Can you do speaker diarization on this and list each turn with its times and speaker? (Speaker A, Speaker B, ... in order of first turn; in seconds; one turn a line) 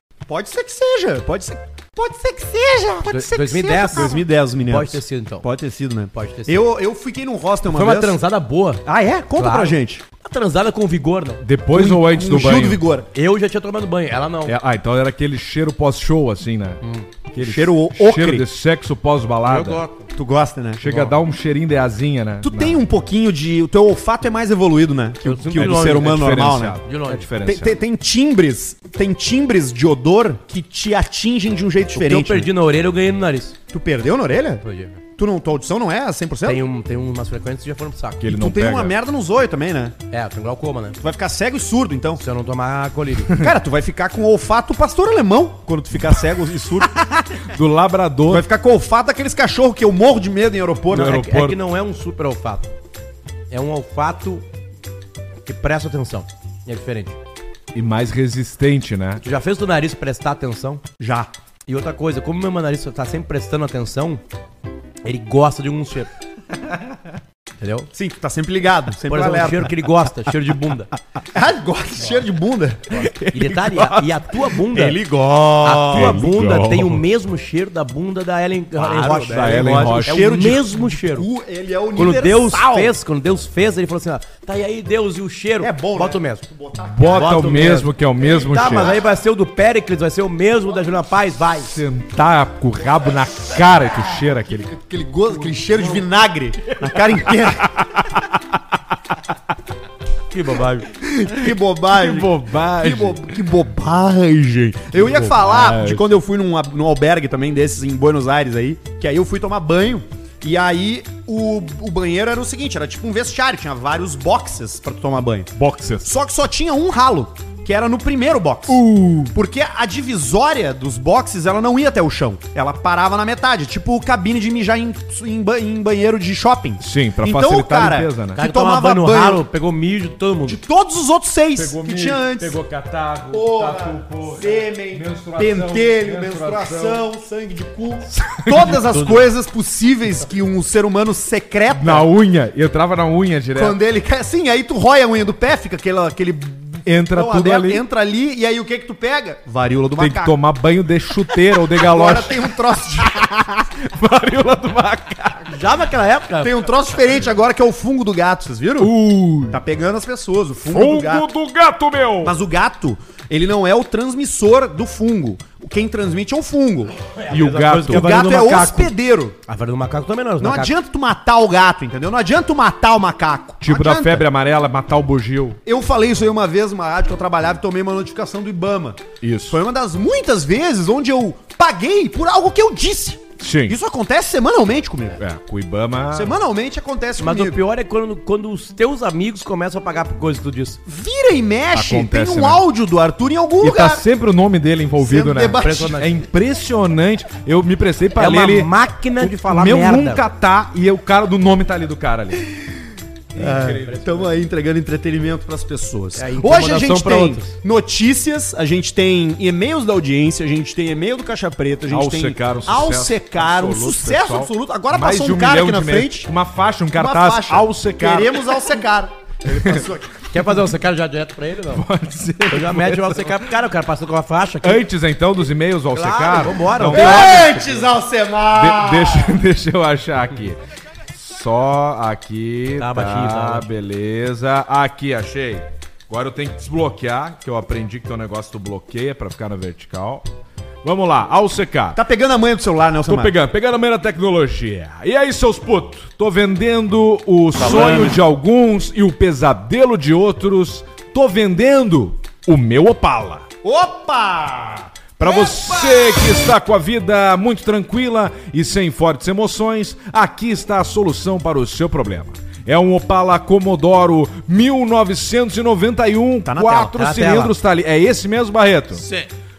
Speaker A: 0.3-8.2
Speaker B: 3.0-5.5
Speaker B: 6.1-6.6
Speaker B: 7.7-8.8
Speaker A: 8.8-10.0
Speaker B: 9.4-11.4
Speaker C: 11.4-12.8
Speaker A: 11.7-13.1
Speaker B: 13.1-14.6
Speaker C: 14.4-16.8
Speaker B: 16.8-17.1
Speaker C: 17.3-19.8
Speaker A: 17.4-18.5
Speaker B: 19.4-20.1
Speaker A: 20.1-20.9
Speaker C: 20.8-22.8
Speaker B: 20.9-21.1
Speaker A: 22.4-26.8
Speaker B: 25.2-26.3
Speaker C: 25.5-27.8
Speaker B: 26.8-27.3
Speaker A: 27.4-32.5
Speaker B: 31.9-33.6
Speaker A: 33.7-34.6
Speaker B: 34.6-35.0
Speaker A: 35.1-36.6
Speaker B: 36.5-38.2
Speaker C: 38.2-39.0
Speaker A: 38.2-40.0
Speaker B: 40.1-41.0
Speaker A: 41.0-42.2
Speaker B: 42.2-43.4
Speaker A: 43.3-47.3
Speaker C: 47.4-48.5
Speaker A: 48.3-51.2
Speaker B: 50.9-52.7
Speaker C: 50.9-51.6
Speaker B: 53.5-54.4
Speaker B: 55.4-57.2
Speaker C: 57.7-59.2
Speaker B: 59.2-60.8
Speaker A: 61.0-61.3
Speaker B: 61.7-64.2
Speaker B: 65.0-66.1
Speaker B: 67.6-67.9
Speaker A: 67.9-69.7
Speaker B: 69.1-70.9
Speaker A: 71.3-73.1
Speaker C: 72.9-74.2
Speaker B: 73.3-75.0
Speaker A: 74.7-76.2
Speaker B: 75.6-81.3
Speaker C: 75.9-77.1
Speaker A: 78.8-82.9
Speaker C: 79.3-80.6
Speaker B: 82.0-86.4
Speaker A: 85.6-87.8
Speaker C: 86.8-89.0
Speaker B: 87.0-91.7
Speaker C: 91.7-94.7
Speaker A: 94.7-97.8
Speaker B: 100.3-100.9
Speaker A: 100.9-115.5
Speaker C: 101.5-103.4
Speaker B: 105.0-105.3
Speaker C: 105.3-106.1
Speaker C: 115.6-116.1
Speaker A: 116.0-129.4
Speaker C: 118.7-119.3
Speaker C: 126.8-128.4
Speaker B: 128.4-130.6
Speaker A: 130.4-132.6
Speaker C: 131.6-137.0
Speaker A: 133.3-142.1
Speaker C: 138.1-138.8
Speaker B: 138.6-139.3
Speaker C: 141.7-143.8
Speaker A: 143.6-150.4
Speaker C: 146.8-147.8
Speaker C: 150.0-152.5
Speaker A: 151.4-153.5
Speaker C: 153.1-155.6
Speaker B: 155.5-156.7
Speaker A: 156.4-158.9
Speaker C: 158.8-159.6
Speaker A: 159.5-161.3
Speaker C: 160.7-162.3
Speaker A: 162.2-166.9
Speaker B: 167.1-168.9
Speaker C: 167.3-168.8
Speaker A: 167.8-169.4
Speaker B: 169.4-170.7
Speaker A: 170.4-174.2
Speaker C: 173.6-175.6
Speaker A: 175.6-185.2
Speaker C: 179.2-179.6
Speaker C: 183.4-183.8
Speaker C: 185.2-186.4
Speaker A: 186.1-187.6
Speaker B: 187.2-190.8
Speaker A: 190.9-194.0
Speaker C: 191.7-192.6
Speaker C: 193.6-202.5
Speaker A: 195.0-196.0
Speaker B: 195.6-196.2
Speaker B: 198.2-200.2
Speaker A: 203.4-216.3
Speaker C: 203.4-203.8
Speaker B: 203.4-204.2
Speaker B: 206.1-207.6
Speaker C: 211.9-218.7
Speaker A: 216.9-220.2
Speaker C: 219.5-219.9
Speaker B: 220.3-221.9
Speaker C: 221.7-223.4
Speaker B: 222.5-224.8
Speaker C: 224.6-227.5
Speaker B: 225.9-227.9
Speaker A: 226.9-229.4
Speaker C: 228.5-230.6
Speaker C: 231.1-240.2
Speaker B: 232.8-233.7
Speaker C: 240.8-242.0
Speaker A: 241.9-243.3
Speaker C: 243.1-253.4
Speaker A: 247.8-248.1
Speaker A: 253.6-256.4
Speaker C: 255.2-269.1
Speaker A: 266.4-266.9
Speaker B: 266.9-267.5